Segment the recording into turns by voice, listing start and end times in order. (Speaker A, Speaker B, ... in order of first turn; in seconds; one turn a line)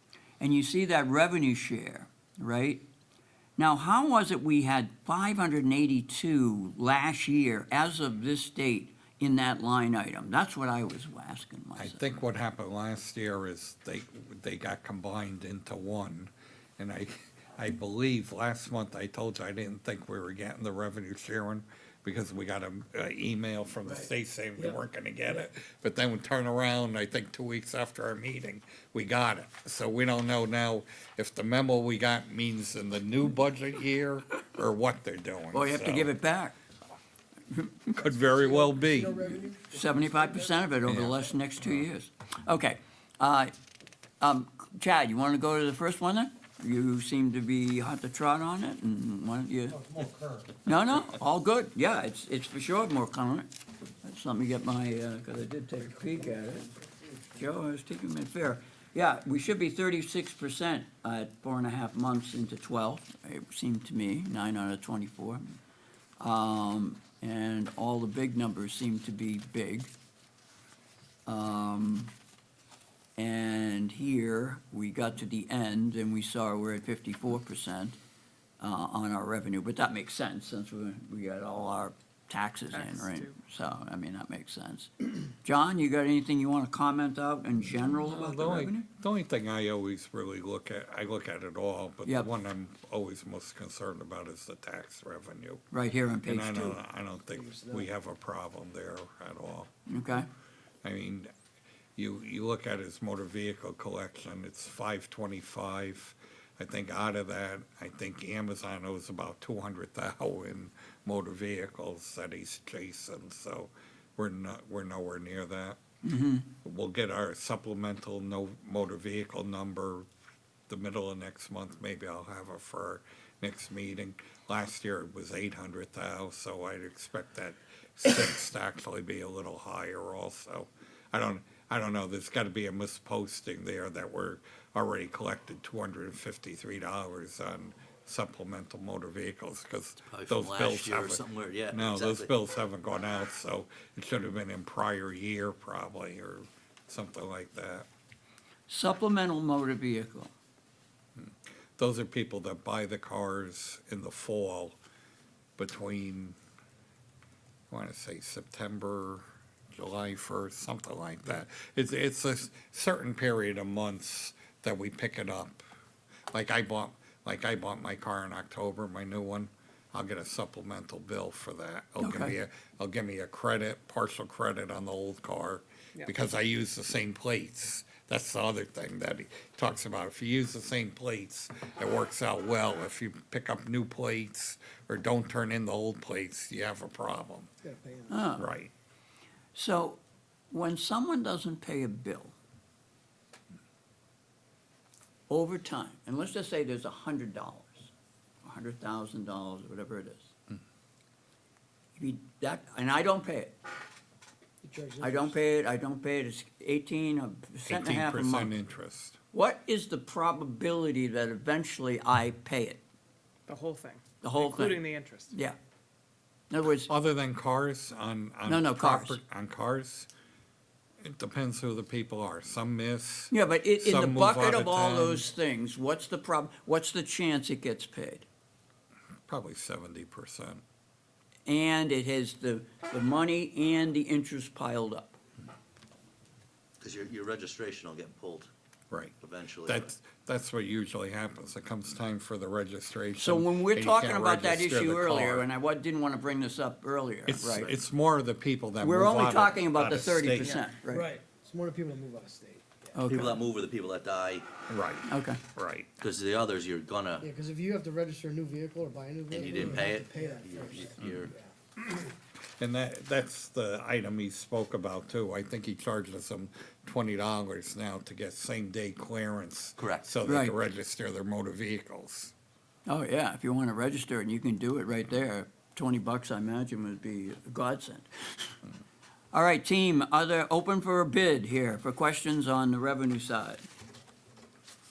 Speaker A: 0.4-2.8
Speaker A: 3.6-12.1
Speaker B: 11.8-36.1
Speaker A: 35.5-36.5
Speaker B: 37.9-39.5
Speaker C: 38.4-40.6
Speaker A: 39.7-43.5
Speaker B: 40.9-41.9
Speaker A: 44.2-49.8
Speaker C: 50.0-50.4
Speaker A: 50.6-53.5
Speaker A: 54.0-65.6
Speaker A: 66.2-69.9
Speaker A: 71.3-72.1
Speaker A: 73.2-78.0
Speaker A: 78.6-88.8
Speaker D: 82.7-83.3
Speaker B: 88.0-95.6
Speaker A: 95.7-96.8
Speaker B: 96.2-99.8
Speaker C: 97.4-97.9
Speaker A: 99.9-100.3
Speaker B: 100.8-101.3
Speaker B: 102.0-115.8
Speaker A: 116.0-116.5
Speaker B: 116.6-120.1
Speaker B: 120.7-147.9
Speaker E: 140.0-142.3
Speaker A: 148.7-150.3
Speaker B: 151.2-154.8
Speaker B: 155.6-156.4
Speaker B: 157.7-165.6
Speaker B: 166.3-187.5
Speaker A: 172.0-172.3
Speaker C: 187.6-188.2
Speaker A: 188.1-188.5
Speaker B: 188.4-188.7
Speaker A: 189.6-192.4
Speaker A: 195.3-197.9
Speaker A: 198.4-200.3
Speaker A: 202.0-203.5
Speaker C: 204.6-205.3
Speaker A: 205.0-208.5
Speaker B: 207.7-209.2
Speaker A: 209.3-212.8
Speaker D: 213.5-215.3
Speaker A: 214.2-215.6
Speaker A: 216.5-216.9
Speaker B: 216.9-220.1
Speaker A: 218.5-219.2
Speaker B: 221.0-225.2
Speaker A: 223.3-228.3
Speaker B: 229.3-230.6
Speaker A: 231.5-235.1
Speaker E: 236.8-238.5
Speaker B: 238.9-245.5
Speaker E: 239.2-239.9
Speaker A: 243.2-247.8
Speaker B: 247.3-250.7
Speaker A: 248.8-251.1
Speaker C: 250.9-252.9
Speaker A: 252.9-253.4
Speaker E: 253.1-254.5
Speaker B: 254.7-255.9
Speaker A: 255.1-255.4
Speaker E: 256.0-257.3
Speaker C: 257.2-261.5
Speaker E: 259.3-261.3
Speaker B: 261.0-261.2
Speaker B: 262.6-272.3
Speaker E: 269.8-270.1
Speaker A: 270.2-270.6
Speaker A: 272.9-278.5
Speaker A: 279.3-283.6